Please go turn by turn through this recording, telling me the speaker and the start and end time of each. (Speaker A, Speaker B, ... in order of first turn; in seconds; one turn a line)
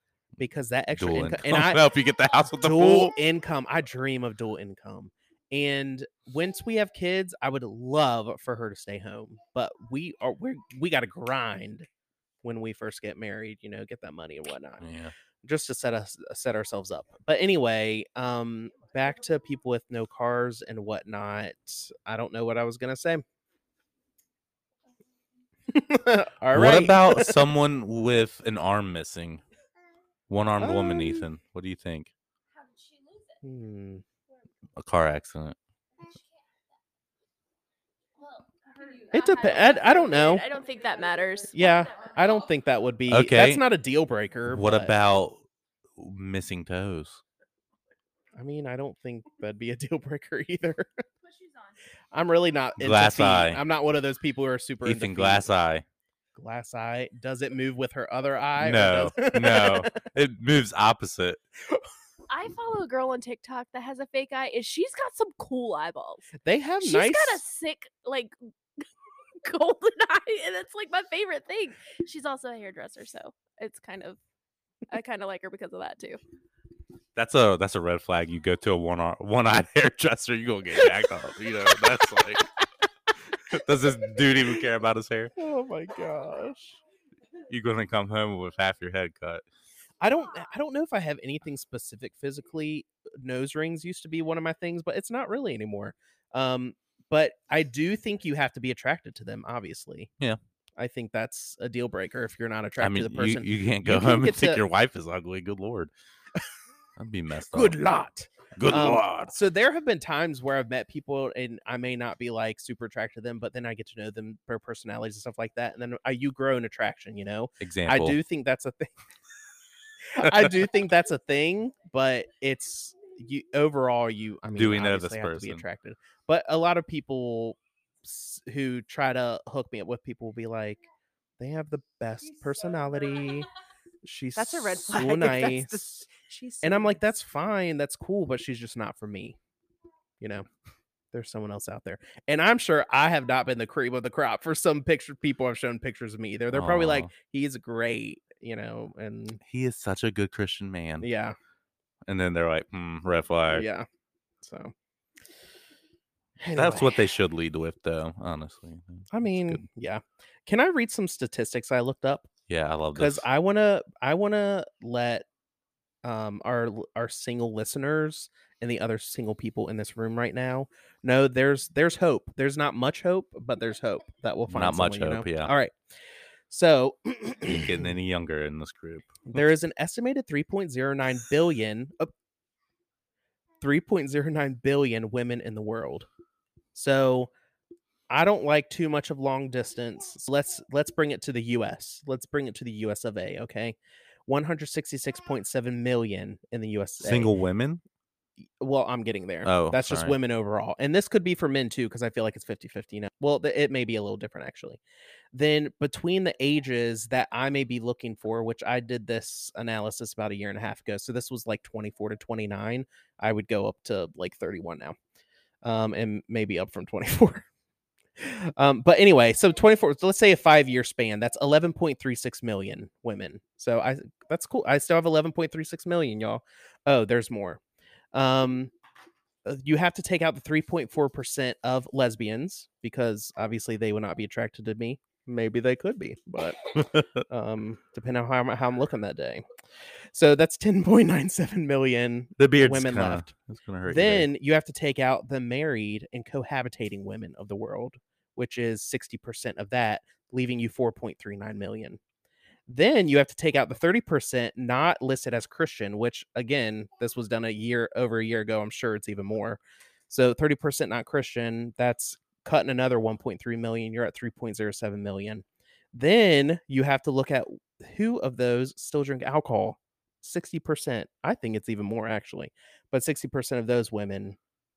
Speaker A: 0.4-1.9
Speaker B: 0.9-3.1
Speaker A: 2.6-11.9
Speaker A: 12.4-14.8
Speaker B: 14.8-15.1
Speaker A: 15.4-23.2
Speaker A: 25.7-27.4
Speaker B: 26.5-29.4
Speaker B: 30.3-32.1
Speaker A: 30.6-31.3
Speaker A: 33.4-34.0
Speaker B: 34.8-35.6
Speaker C: 39.0-41.7
Speaker A: 39.1-40.4
Speaker A: 41.5-44.9
Speaker B: 43.1-43.6
Speaker B: 44.5-45.4
Speaker B: 46.0-47.2
Speaker A: 48.4-51.0
Speaker A: 52.1-55.5
Speaker B: 52.8-53.6
Speaker B: 54.8-55.9
Speaker A: 56.4-60.0
Speaker B: 58.6-61.4
Speaker C: 62.3-66.3
Speaker A: 66.4-67.4
Speaker C: 66.8-68.3
Speaker C: 69.4-74.2
Speaker C: 74.9-76.2
Speaker B: 77.2-82.5
Speaker B: 83.5-85.3
Speaker A: 85.4-86.8
Speaker B: 87.5-89.4
Speaker A: 90.0-100.1
Speaker A: 100.8-104.6
Speaker B: 102.8-105.9
Speaker B: 107.0-107.8
Speaker A: 107.5-118.9
Speaker B: 108.6-109.3
Speaker B: 117.6-118.2
Speaker A: 120.1-130.8
Speaker B: 124.5-125.6
Speaker A: 131.4-133.5
Speaker A: 134.0-136.0
Speaker D: 134.4-137.0
Speaker A: 136.6-139.4
Speaker A: 140.2-140.5
Speaker A: 141.1-149.4
Speaker B: 146.5-147.1
Speaker B: 149.4-151.1
Speaker A: 151.0-151.4
Speaker B: 152.1-153.7
Speaker A: 153.5-153.9
Speaker A: 154.4-154.7
Speaker A: 156.4-157.0
Speaker B: 156.6-159.6
Speaker A: 159.1-162.3
Speaker B: 162.5-163.3
Speaker A: 162.9-165.3
Speaker A: 166.0-175.7
Speaker B: 174.5-175.5
Speaker A: 176.5-177.9
Speaker B: 177.5-179.4
Speaker A: 179.3-182.1
Speaker A: 183.6-186.1
Speaker A: 186.8-187.3
Speaker A: 188.1-193.8
Speaker A: 194.3-197.3
Speaker B: 197.0-197.8
Speaker A: 198.6-204.8
Speaker B: 199.4-200.2
Speaker A: 205.3-215.0
Speaker A: 215.6-217.5
Speaker A: 218.2-227.6
Speaker A: 228.1-228.7
Speaker A: 229.4-239.4
Speaker B: 236.8-237.1
Speaker A: 240.1-243.3
Speaker B: 242.4-244.3
Speaker A: 243.9-252.0
Speaker A: 252.7-274.4